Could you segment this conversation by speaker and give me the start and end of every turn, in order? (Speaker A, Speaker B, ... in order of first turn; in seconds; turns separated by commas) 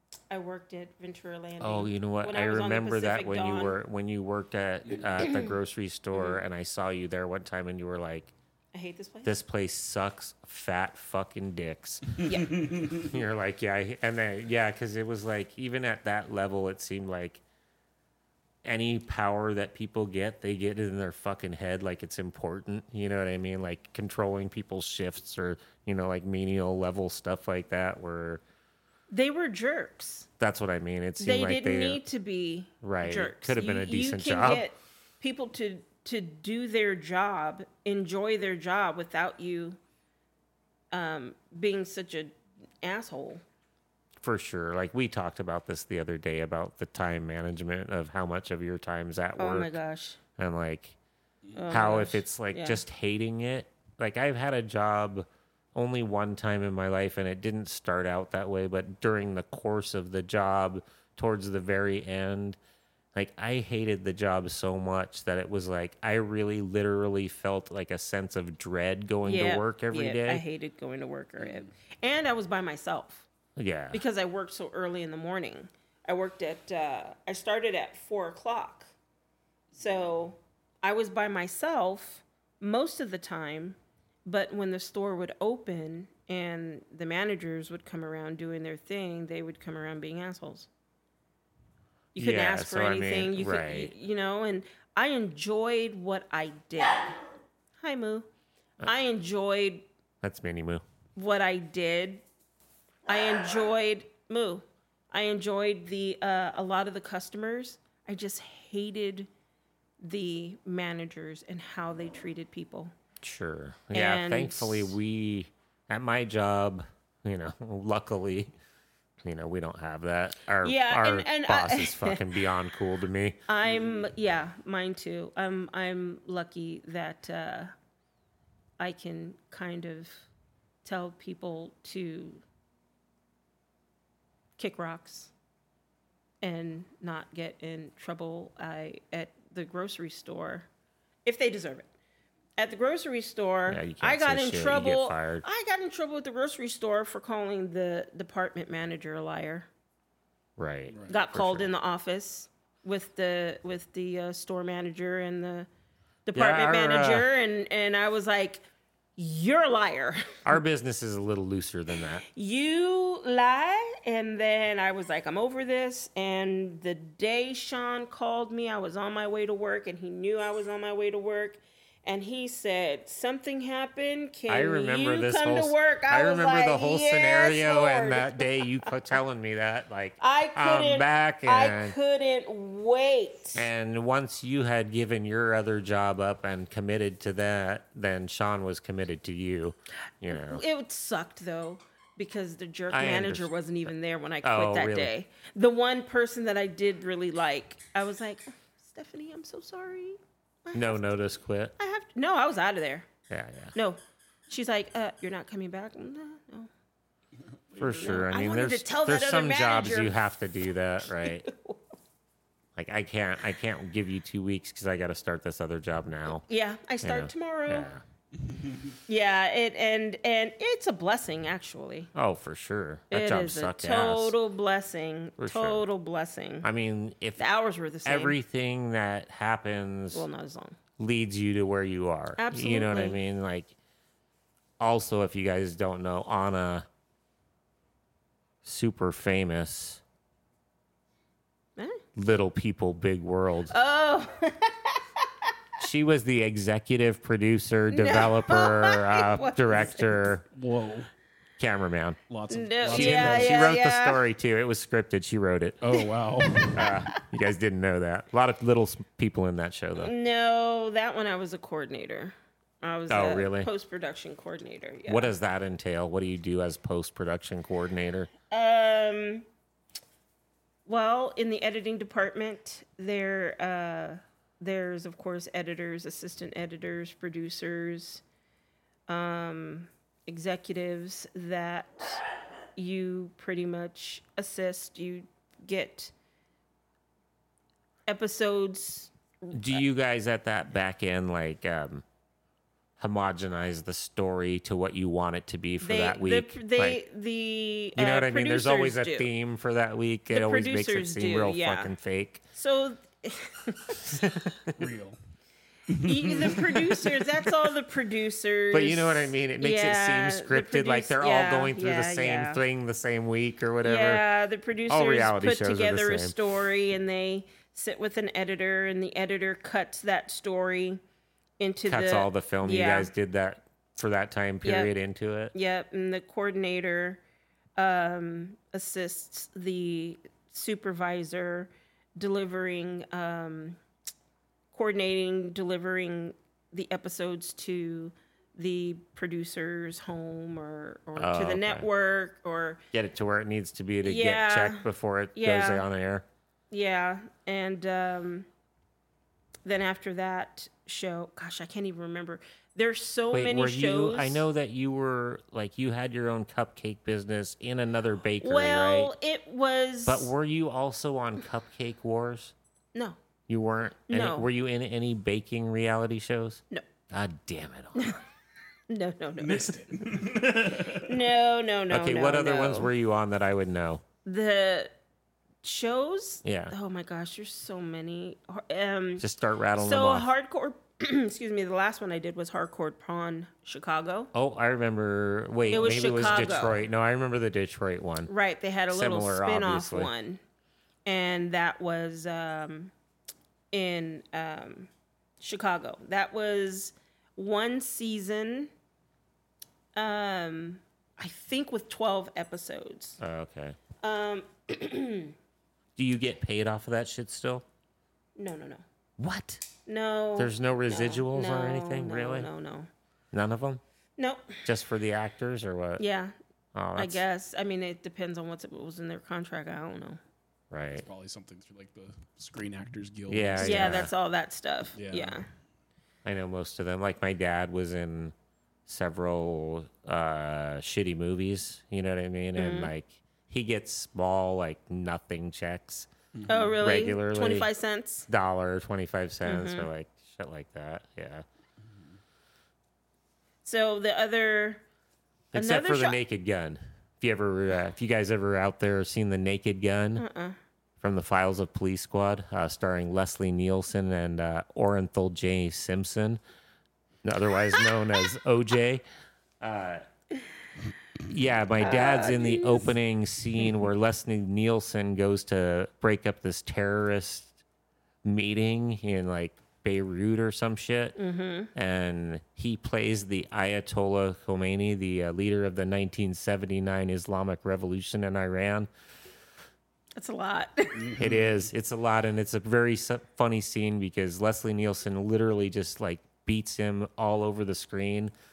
Speaker A: 0.3-3.8, Speaker B: 1.6-8.3, Speaker A: 5.2-5.5, Speaker A: 6.1-6.4, Speaker A: 8.7-9.4, Speaker B: 9.2-12.2, Speaker A: 12.2-12.5, Speaker C: 12.5-13.0, Speaker B: 12.9-17.4, Speaker B: 18.6-28.4, Speaker A: 29.1-30.3, Speaker B: 30.4-32.0, Speaker A: 31.2-39.8, Speaker B: 32.8-34.7, Speaker A: 40.9-43.4, Speaker B: 44.2-49.8, Speaker A: 49.4-50.2, Speaker B: 50.4-51.0, Speaker A: 51.5-52.8, Speaker B: 51.7-62.6, Speaker B: 63.1-70.4, Speaker A: 69.2-73.3, Speaker C: 71.4-71.7, Speaker B: 73.6-74.0, Speaker A: 73.9-78.9, Speaker A: 79.8-90.7, Speaker B: 92.2-93.9, Speaker A: 92.2-97.2, Speaker A: 97.8-98.3, Speaker A: 98.8-99.9, Speaker B: 100.2-100.8, Speaker A: 101.2-102.2, Speaker A: 103.1-109.3, Speaker A: 110.0-112.9, Speaker B: 113.2-118.5, Speaker A: 113.9-115.0, Speaker B: 119.2-123.4, Speaker A: 120.6-122.2, Speaker A: 123.5-127.7, Speaker A: 128.8-130.3, Speaker A: 130.8-132.4, Speaker A: 134.6-135.3, Speaker A: 136.4-140.7, Speaker A: 141.2-141.9, Speaker A: 142.6-149.7, Speaker B: 143.7-145.4, Speaker B: 150.6-151.7, Speaker A: 151.1-155.7, Speaker A: 156.3-158.6, Speaker B: 156.3-157.3, Speaker A: 159.2-160.5, Speaker B: 160.4-162.2, Speaker A: 162.2-178.9, Speaker B: 174.5-181.9, Speaker A: 180.2-183.7, Speaker B: 183.6-190.6, Speaker A: 190.3-201.2, Speaker B: 192.9-193.5, Speaker B: 194.4-195.1, Speaker B: 200.7-201.8, Speaker A: 201.8-203.1, Speaker B: 203.3-203.8, Speaker A: 203.8-206.7, Speaker C: 207.7-208.2, Speaker B: 207.8-211.5, Speaker A: 207.9-210.2, Speaker A: 211.3-211.8, Speaker B: 212.8-216.5, Speaker A: 216.4-217.9, Speaker B: 217.0-218.0, Speaker C: 218.5-218.8, Speaker A: 219.1-222.1, Speaker B: 222.2-224.4, Speaker A: 223.1-226.7, Speaker B: 225.4-225.9, Speaker B: 226.6-227.4, Speaker A: 227.4-228.4, Speaker B: 228.1-230.3, Speaker A: 230.1-230.8, Speaker B: 231.0-233.8, Speaker A: 232.4-233.2, Speaker B: 234.8-236.9, Speaker B: 238.6-240.0, Speaker A: 241.8-242.0, Speaker B: 242.2-243.8, Speaker A: 243.7-245.5, Speaker B: 245.8-250.4, Speaker A: 247.9-250.3, Speaker C: 250.5-251.1, Speaker B: 251.6-252.2, Speaker C: 252.3-253.7, Speaker A: 252.5-254.2, Speaker B: 252.9-255.8, Speaker C: 255.8-256.9, Speaker A: 256.5-256.8, Speaker B: 256.7-260.1, Speaker A: 260.0-265.3, Speaker B: 263.1-263.7, Speaker B: 265.1-268.3, Speaker A: 268.5-269.5, Speaker A: 270.9-278.2, Speaker A: 279.1-282.2, Speaker A: 282.8-286.1, Speaker A: 288.1-289.8, Speaker B: 289.5-292.0, Speaker B: 293.0-297.0, Speaker A: 295.8-299.3, Speaker B: 298.0-302.4, Speaker A: 300.3-301.9, Speaker A: 302.5-304.1, Speaker B: 304.0-304.8, Speaker C: 304.8-305.2, Speaker C: 305.9-307.2, Speaker A: 305.9-312.6, Speaker B: 308.7-314.2, Speaker A: 313.8-321.0, Speaker B: 314.9-316.4, Speaker A: 321.6-323.1, Speaker B: 321.9-325.5, Speaker A: 324.6-324.9, Speaker A: 325.5-327.2, Speaker A: 327.8-333.8, Speaker A: 334.7-342.8, Speaker B: 341.2-341.9, Speaker B: 342.9-346.3, Speaker A: 344.0-345.9, Speaker A: 346.7-348.5, Speaker A: 349.6-354.4, Speaker B: 353.3-359.1, Speaker A: 358.4-360.3, Speaker B: 360.1-362.5, Speaker B: 363.5-368.2, Speaker A: 364.1-364.5, Speaker A: 368.9-370.0, Speaker C: 369.4-371.3, Speaker A: 370.9-372.9, Speaker B: 371.9-374.0, Speaker A: 374.2-374.9, Speaker A: 375.6-384.3, Speaker B: 376.4-376.7, Speaker B: 379.2-380.3, Speaker B: 384.3-388.3, Speaker A: 385.7-386.8, Speaker A: 388.3-390.4, Speaker B: 388.9-390.1, Speaker A: 391.1-392.9, Speaker A: 393.7-394.9, Speaker A: 395.4-398.7, Speaker A: 400.0-403.2, Speaker B: 403.2-403.8, Speaker A: 404.0-405.4, Speaker B: 406.0-407.6, Speaker A: 408.4-408.8, Speaker B: 409.2-409.7, Speaker A: 409.9-412.9, Speaker B: 410.4-412.5, Speaker B: 413.3-413.8, Speaker A: 414.2-414.6, Speaker B: 414.6-416.0, Speaker A: 416.0-416.3, Speaker B: 416.7-417.2, Speaker A: 417.0-420.2, Speaker B: 420.7-421.1, Speaker C: 420.9-424.1, Speaker B: 423.3-424.1, Speaker A: 423.6-425.5, Speaker C: 424.9-425.4, Speaker B: 426.2-428.3, Speaker B: 428.9-436.1, Speaker A: 432.6-432.9, Speaker C: 436.3-436.8, Speaker A: 436.5-438.3, Speaker B: 436.8-437.7, Speaker B: 438.3-441.4, Speaker A: 439.4-439.9, Speaker A: 443.6-444.8, Speaker B: 445.5-450.2, Speaker A: 445.5-446.2, Speaker A: 450.2-450.6, Speaker B: 451.0-456.4, Speaker B: 457.2-459.0, Speaker B: 459.6-460.1, Speaker B: 461.2-467.6, Speaker A: 461.8-462.9, Speaker B: 468.2-471.2, Speaker A: 471.2-471.7, Speaker B: 471.7-478.9, Speaker A: 480.2-481.1, Speaker C: 481.0-481.6, Speaker B: 481.2-488.3